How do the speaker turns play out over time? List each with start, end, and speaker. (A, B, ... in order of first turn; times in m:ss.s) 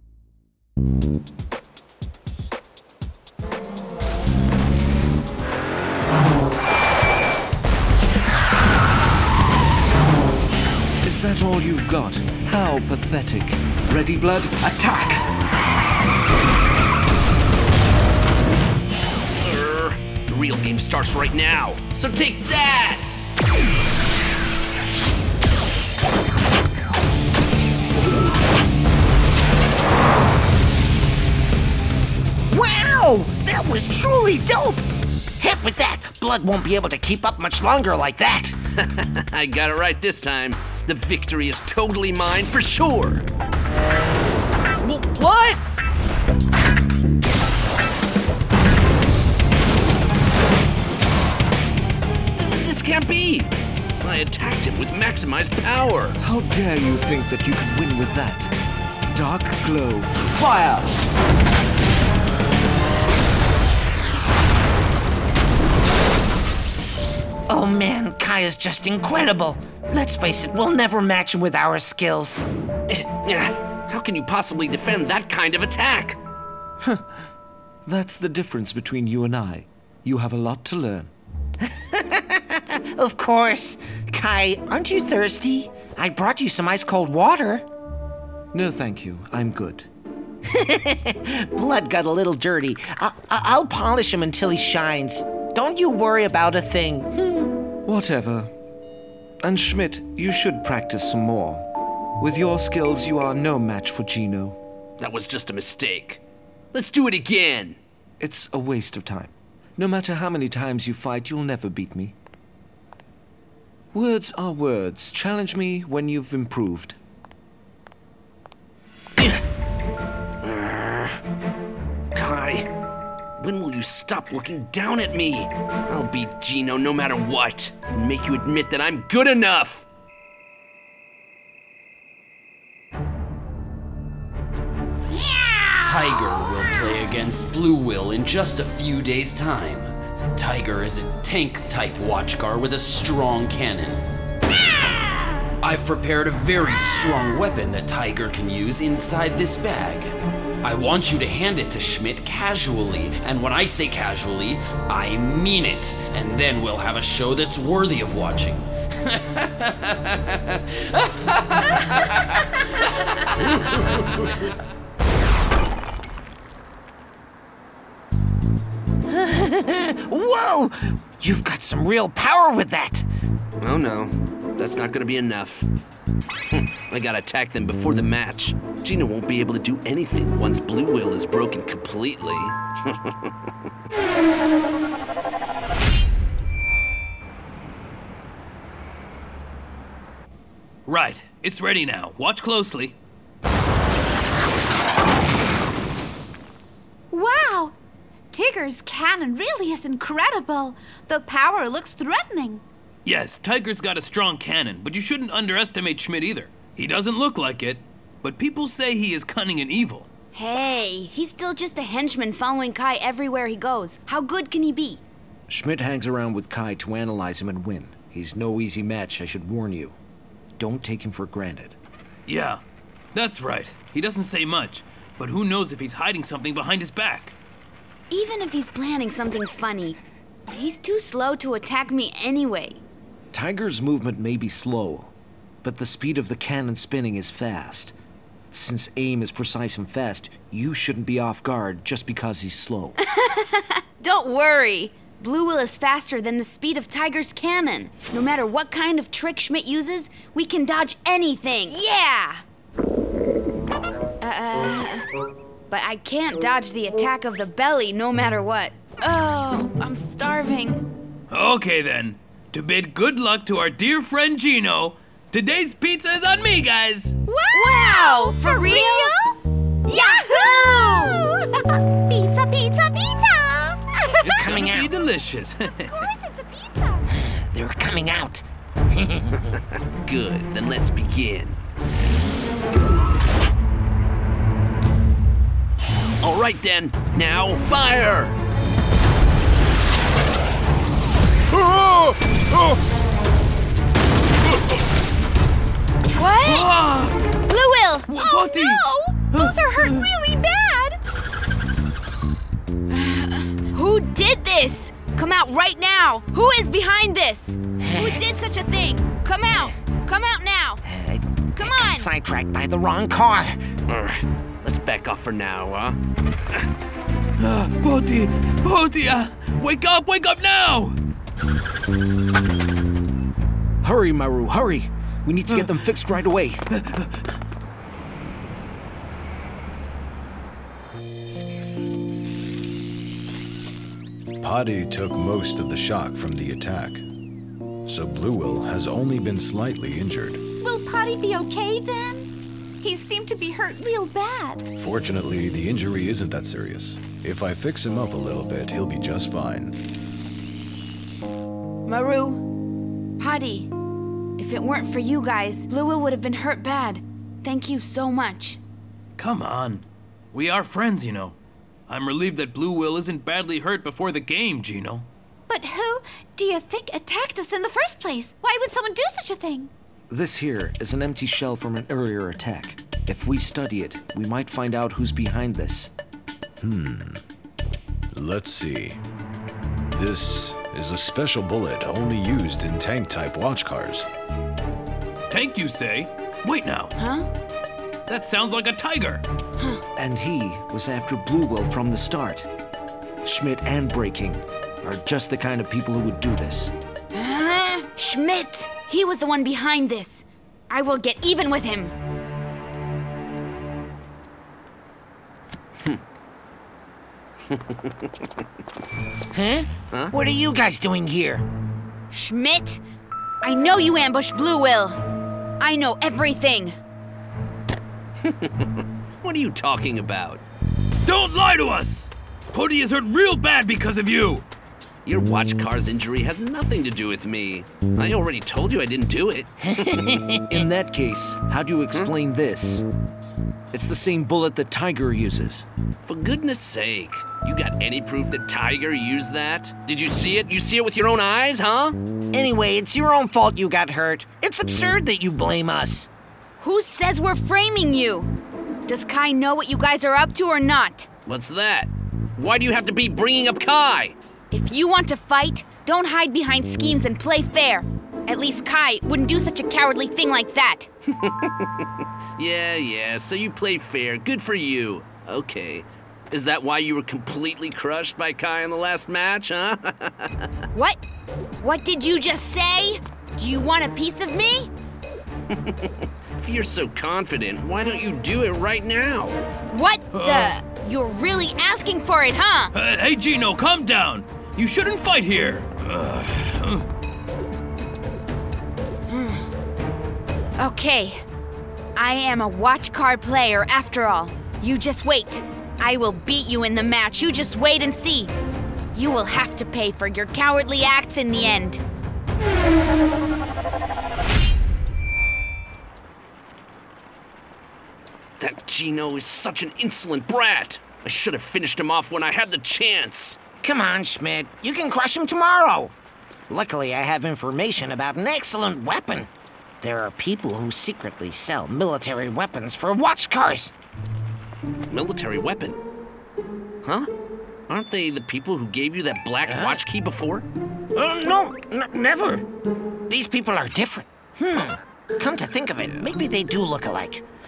0:11.0-0:15.3 A
0:19.4-0:23.2 B
0:32.5-0:34.8 C
0:35.4-0:38.6 C
0:38.8-0:43.2 B
0:44.8-0:45.6 B
0:52.4-0:56.2 B
0:56.2-0:58.5 A
0:59.1-1:00.8 A
1:00.4-1:00.8 C
1:07.5-1:12.4 C
1:12.9-1:16.2 B
1:16.8-1:17.0 A
1:17.8-1:21.1 A
1:21.7-1:27.7 C
1:28.5-1:29.9 A
1:30.5-1:37.1 C
1:37.8-1:38.5 A
1:39.4-1:41.7 A
1:42.2-1:44.6 A
1:45.0-1:46.2 B
1:46.7-1:47.8 B
1:48.2-1:52.2 A
1:53.9-1:57.0 A
2:00.4-2:01.2 B
2:02.1-2:02.7 B
2:03.4-2:09.8 B
2:15.8-2:24.0 D
2:25.6-2:43.2 D
2:43.8-2:44.1 D
2:49.1-2:53.1 C
2:53.6-2:55.7 B
2:56.5-3:03.3 B
3:10.9-3:13.0 E
3:17.1-3:17.8 F
3:18.3-3:22.6 F
3:23.0-3:30.1 E
3:30.3-3:35.0 G
3:35.5-3:40.0 A
3:40.6-3:41.8 A
3:42.3-3:42.6 E
3:43.1-3:47.4 E
3:48.1-3:52.8 G
3:53.3-3:55.1 A
3:55.6-3:57.9 A
3:58.5-4:03.0 A
4:03.1-4:12.4 G
4:14.2-4:15.1 G
4:15.7-4:20.8 G
4:21.3-4:27.2 E
4:27.3-4:29.3 F
4:27.5-4:29.2 G
4:29.9-4:31.3 F
4:32.1-4:33.8 F
4:34.2-4:36.0 E
4:34.2-4:34.9 C
4:35.8-4:37.0 F
4:37.2-4:39.4 C
4:40.0-4:41.6 B
4:46.2-4:48.4 B
4:51.8-4:52.1 E
4:56.1-4:56.7 G
4:56.4-4:57.2 E
4:57.4-4:58.1 G
4:58.1-5:00.0 E
4:58.1-5:01.0 F
5:02.9-5:10.8 G
5:07.8-5:08.2 C
5:10.8-5:13.6 C
5:11.5-5:12.1 G
5:13.9-5:16.0 B
5:17.4-5:21.0 E
5:23.8-5:26.6 A
5:34.4-5:37.0 H
5:37.8-5:40.4 H
5:40.6-5:42.3 F
5:42.8-5:44.6 F
5:44.8-5:49.7 H
5:51.8-5:52.4 G
5:53.2-5:53.7 G
5:54.4-5:58.6 G
5:59.2-6:01.4 E
6:01.9-6:05.1 E
6:05.5-6:09.7 F
6:10.1-6:15.9 A
6:16.6-6:17.2 H
6:18.1-6:19.0 H
6:19.9-6:24.1 H
6:25.3-6:27.0 E
6:27.0-6:27.3 G
6:28.1-6:29.2 E
6:29.9-6:32.5 A
6:33.2-6:36.7 A
6:37.1-6:41.9 G
6:47.5-6:47.9 B
6:49.3-6:51.4 C
6:52.1-6:52.8 G
6:53.4-6:55.0 G
6:55.6-6:56.8 G
6:58.2-6:58.7 B
6:59.2-7:00.4 B
7:01.0-7:04.4 E
7:05.0-7:10.2 B
7:09.7-7:10.5 C
7:10.5-7:12.8 A
7:13.7-7:15.6 A
7:16.0-7:22.0 B
7:22.3-7:26.1 C
7:26.6-7:28.3 G
7:28.9-7:31.1 G
7:31.2-7:34.1 B
7:34.5-7:40.9 G
7:41.2-7:41.8 B
7:42.4-7:50.5 B
7:50.7-7:51.0 G
7:51.6-7:54.7 G
7:55.5-7:59.4 B
7:59.7-8:02.7 G
8:00.1-8:00.5 E
8:02.7-8:06.8 E
8:09.1-8:09.4 G
8:10.6-8:11.2 G
8:12.0-8:18.3 G
8:18.9-8:21.8 G
8:28.4-8:33.4 B
8:33.6-8:35.9 C
8:36.5-8:39.3 C
8:39.8-8:43.7 C
8:44.9-8:45.8 B
8:46.8-8:47.1 B
8:47.7-8:50.4 B
8:49.5-8:49.8 C
8:50.9-8:52.4 C
8:53.1-8:57.2 C